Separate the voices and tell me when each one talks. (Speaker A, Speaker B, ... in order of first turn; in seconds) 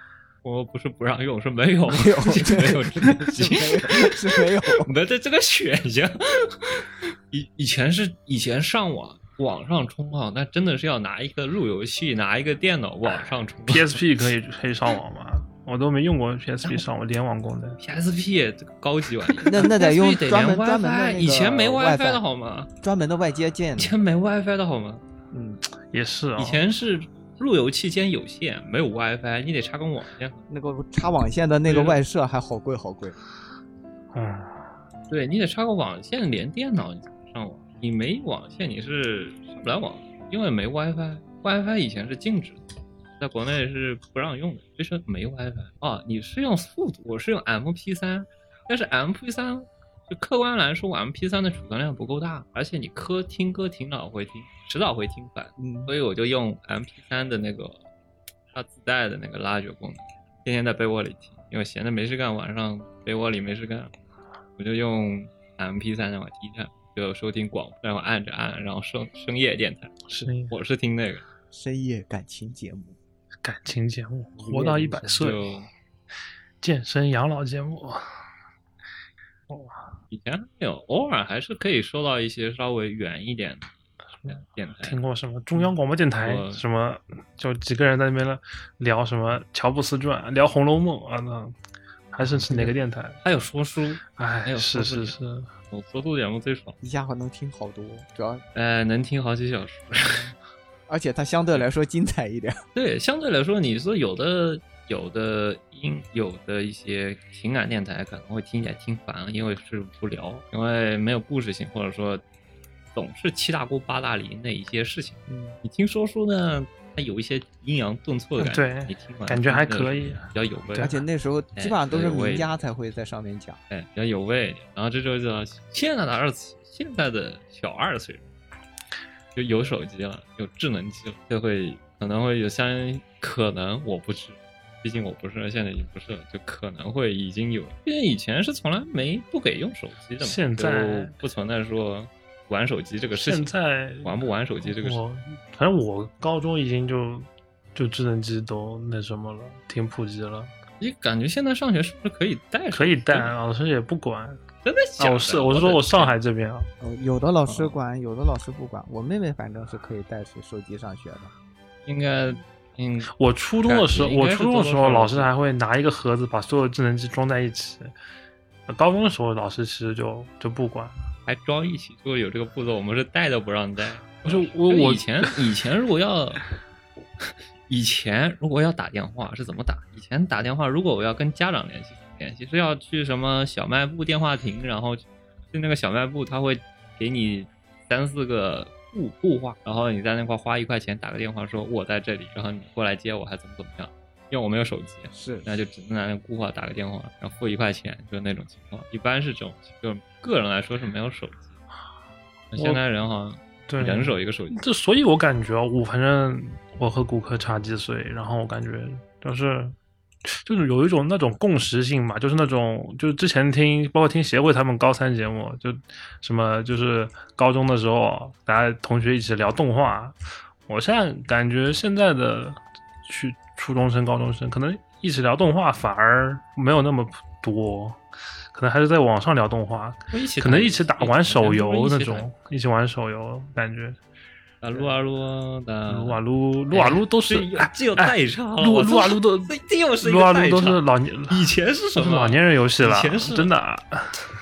Speaker A: 0.4-13.9, 17.8-22.7, 23.8-25.0, 26.4-30.4, 31.6-32.0, 35.1-42.6, 43.2-57.8, 58.5-63.9, 64.6-71.2, 75.1-75.7, 80.1-83.7, 84.2-85.0, 86.1-86.6, 93.2-95.1, 95.7-96.8, 98.5-100.3, 102.7-112.2, 112.9-120.9, 121.5-122.5, 123.7-128.3, 129.3-143.5, 144.0-145.0, 150.8-153.3, 154.6-156.1, 157.4-157.8, 161.8-163.1, 163.7-165.3, 171.2-176.4, 177.7-201.6, 202.5-204.6, 230.1-232.3, 234.6-236.2, 236.7-243.5
Speaker B: 1.9-4.9, 19.4-22.2, 22.8-23.9, 25.3-25.6, 30.5-33.2, 55.6-55.9, 71.5-73.0, 74.4-75.2, 92.2-92.7, 96.8-98.4, 100.9-102.6, 115.3-115.6, 120.8-123.6, 156.8-161.3, 195.1-195.5
Speaker C: 13.7-17.8, 25.9-26.6, 34.1-34.5, 70.1-70.5, 73.4-75.5, 76.6-78.1, 79.5-79.8, 84.8-91.5, 92.1-93.2, 94.2-95.5, 118.4-121.0, 140.2-141.2, 143.1-150.5, 152.7-154.4, 155.0-156.7, 163.1-167.9, 168.7-170.9, 174.2-175.3, 202.6-202.8, 203.7-209.7, 210.2-220.2, 220.7-228.0, 228.5-234.0, 235.9-244.1